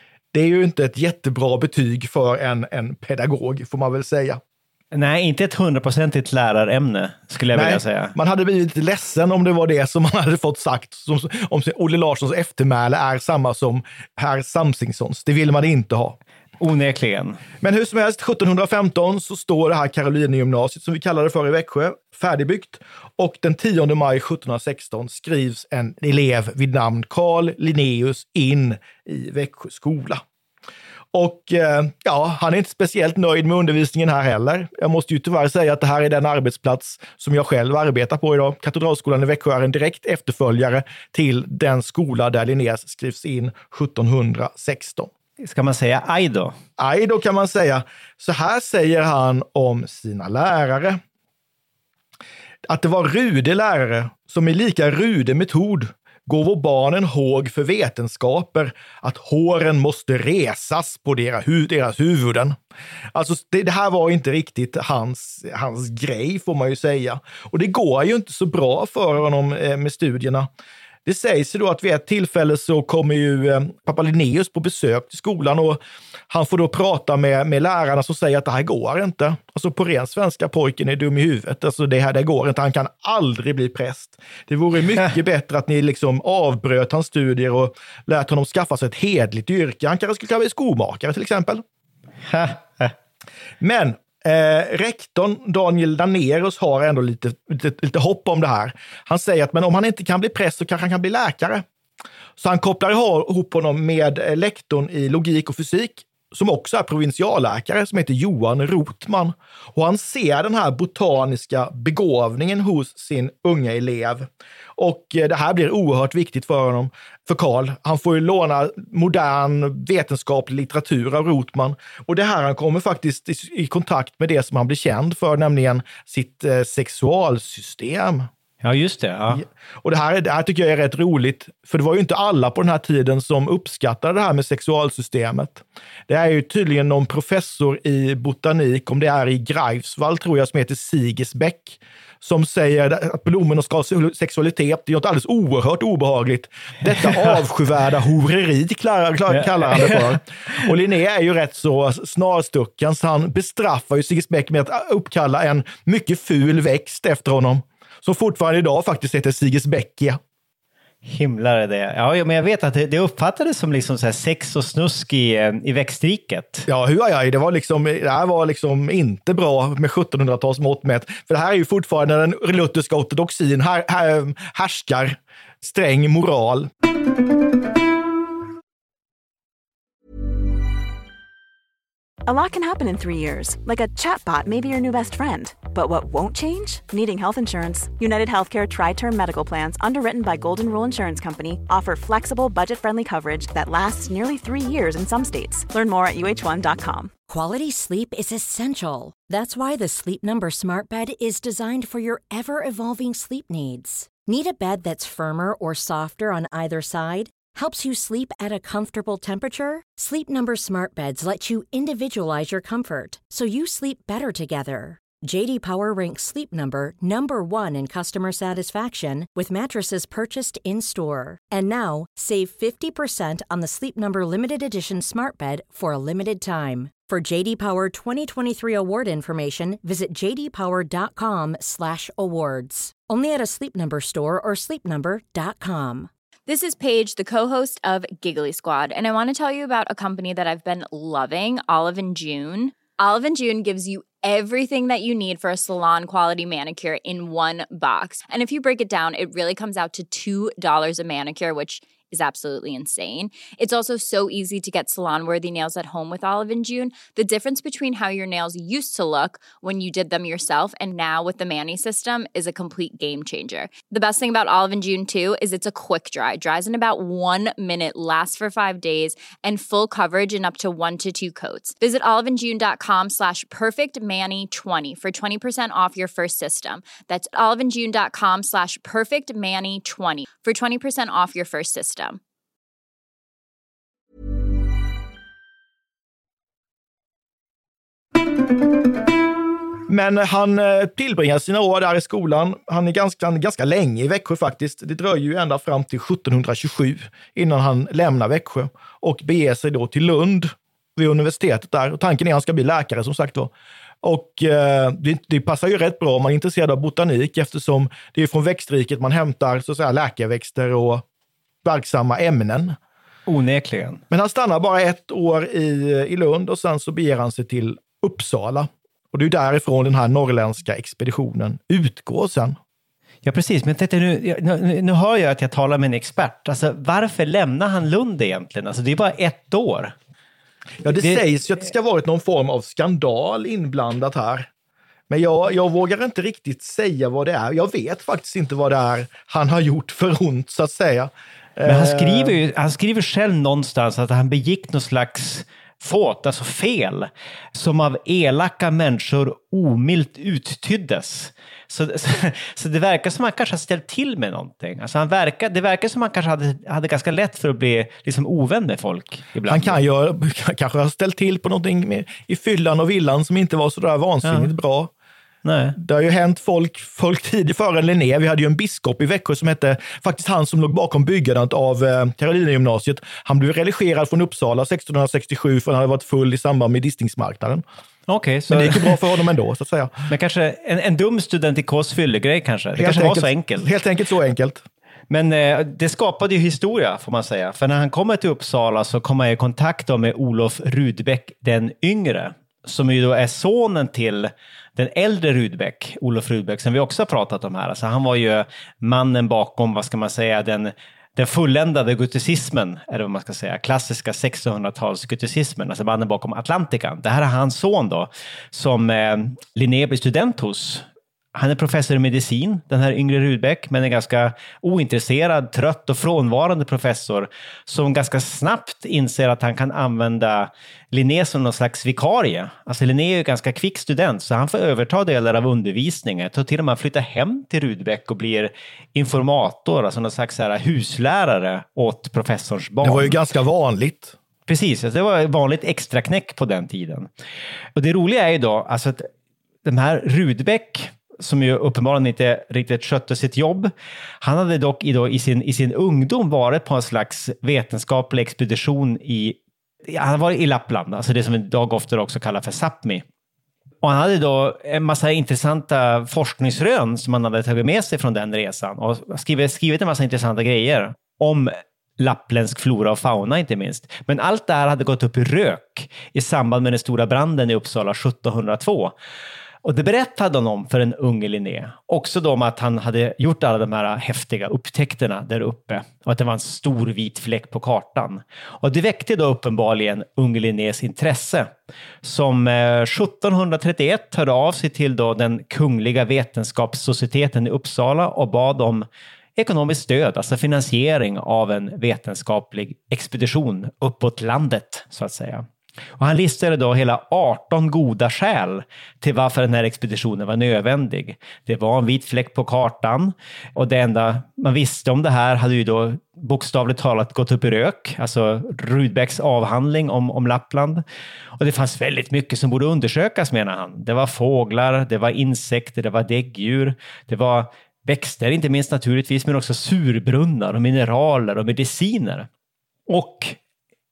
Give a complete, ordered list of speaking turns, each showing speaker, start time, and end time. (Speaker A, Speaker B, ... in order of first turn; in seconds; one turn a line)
Speaker A: 0.3-4.4
Speaker B: 4.9-8.1
Speaker A: 7.5-16.2
Speaker B: 16.6-17.4
Speaker A: 17.6-30.2
Speaker A: 31.1-45.1
Speaker B: 45.4-46.5
Speaker A: 46.8-51.0
Speaker A: 52.6-62.6
Speaker A: 63.1-70.5
Speaker A: 71.0-91.6
Speaker B: 92.3-92.9
Speaker A: 93.6-101.6
Speaker A: 102.4-128.3
Speaker B: 128.6-129.4
Speaker A: 129.3-160.2
Speaker B: 149.4-150.0
Speaker B: 161.0-166.7
Speaker A: 166.7-176.7
Speaker C: 182.3-197.1
Speaker D: 197.3-236.1
Speaker E: 236.5-282.2
Speaker A: 289.9-303.5
Speaker A: 304.0-311.0
Speaker A: 311.6-312.8
Speaker B: 313.3-314.0
Speaker A: 314.1-322.6
Speaker B: 323.2-329.9
Speaker A: 330.8-334.5
Speaker B: 330.9-331.2
Speaker A: 335.1-342.4
Speaker B: 341.6-359.8
Speaker A: 359.5-364.9
Speaker B: 364.2-364.5
Speaker B: 365.4-365.8
Speaker A: 365.8-377.6
Speaker B: 378.1-379.0
Speaker A: 378.5-379.9
Speaker B: 380.1-383.7
Speaker A: 382.8-384.6
Speaker B: 385.1-433.2
Speaker A: 432.8-434.1
Speaker B: 434.5-437.1
Speaker B: 437.8-439.1
Speaker B: 439.6-443.7
Speaker B: 444.2-453.0
Speaker B: 453.8-468.9
Speaker B: 469.6-481.5
Speaker B: 482.0-488.9
Speaker B: 489.4-495.4
Speaker B: 496.0-510.8
Speaker B: 511.4-522.3
Speaker B: 522.9-523.4